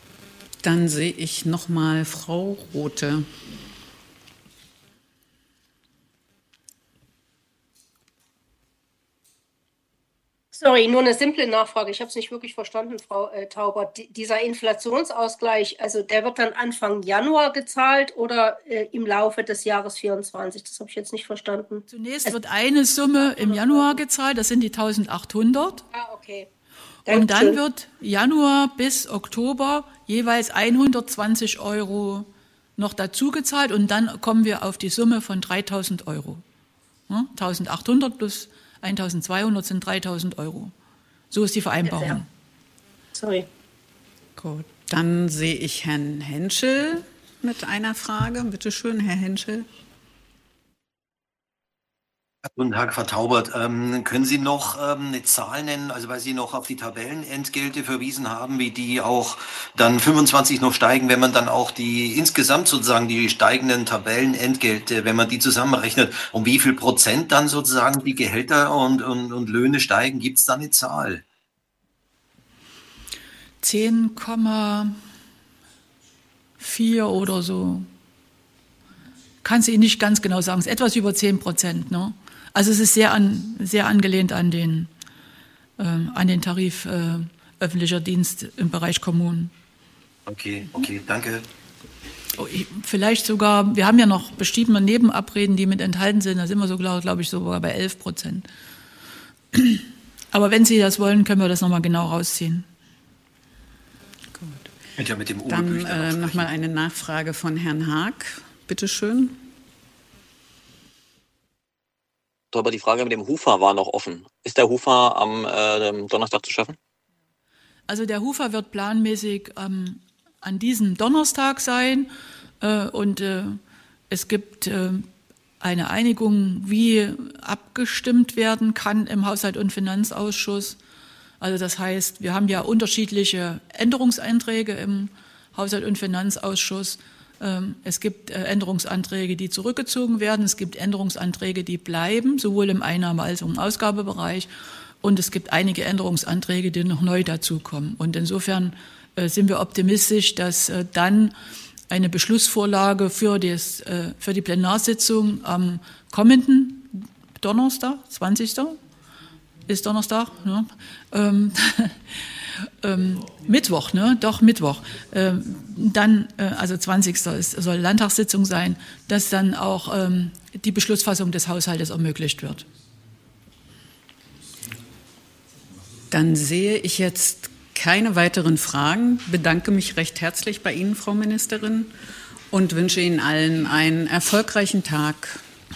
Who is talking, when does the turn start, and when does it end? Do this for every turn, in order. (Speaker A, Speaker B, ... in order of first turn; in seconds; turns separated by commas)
Speaker A: 0.6-3.3, Speaker B: 10.5-22.4, Speaker C: 21.9-25.9, Speaker B: 23.2-24.0, Speaker B: 25.9-26.5, Speaker B: 27.1-27.6, Speaker C: 27.1-36.4, Speaker C: 37.1-40.7, Speaker C: 41.3-42.3, Speaker B: 41.9-42.2, Speaker B: 43.1-43.5, Speaker A: 44.4-49.7, Speaker D: 52.6-71.2, Speaker C: 73.6-75.0, Speaker C: 76.6-77.9, Speaker C: 79.4-84.9, Speaker C: 85.8-89.5, Speaker D: 90.3-91.5, Speaker C: 92.3-98.5, Speaker C: 99.5-102.7, Speaker A: 104.3-104.7, Speaker D: 105.0-106.5, Speaker A: 105.4-109.3, Speaker E: 112.5-116.8, Speaker C: 117.9-122.1, Speaker C: 122.6-125.0, Speaker C: 125.6-130.8, Speaker C: 131.4-144.5, Speaker C: 145.0-151.3, Speaker C: 151.9-158.8, Speaker C: 159.7-162.0, Speaker C: 162.8-172.7, Speaker A: 176.1-181.9, Speaker A: 182.5-185.4